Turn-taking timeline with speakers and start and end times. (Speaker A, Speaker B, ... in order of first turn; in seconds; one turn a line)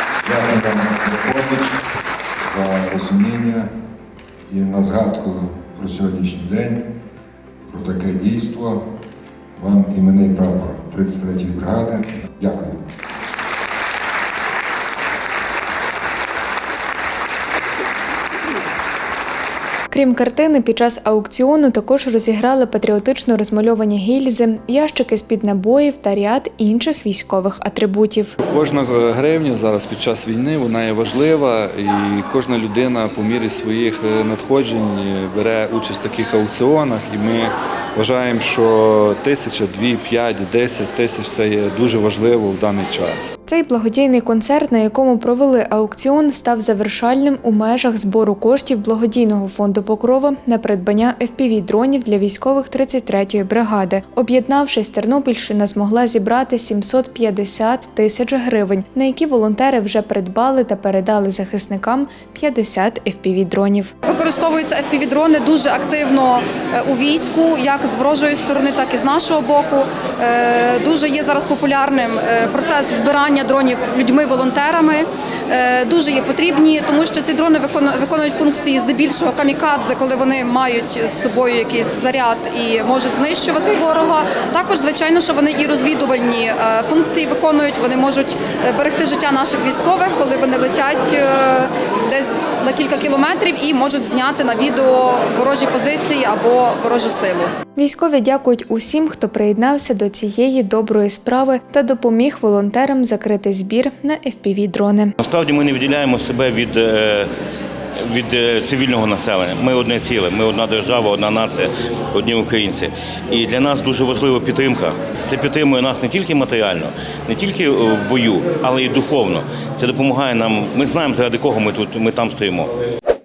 Speaker A: 0.2-1.8
Speaker A: 2.4-3.7
Speaker A: 4.5-6.8
Speaker A: 7.7-8.8
Speaker A: 9.6-12.8
Speaker B: 19.9-28.4
Speaker C: 28.4-43.3
Speaker B: 43.5-63.9
Speaker D: 64.0-97.5
Speaker B: 97.8-105.2
Speaker E: 105.2-107.3
Speaker E: 108.1-122.7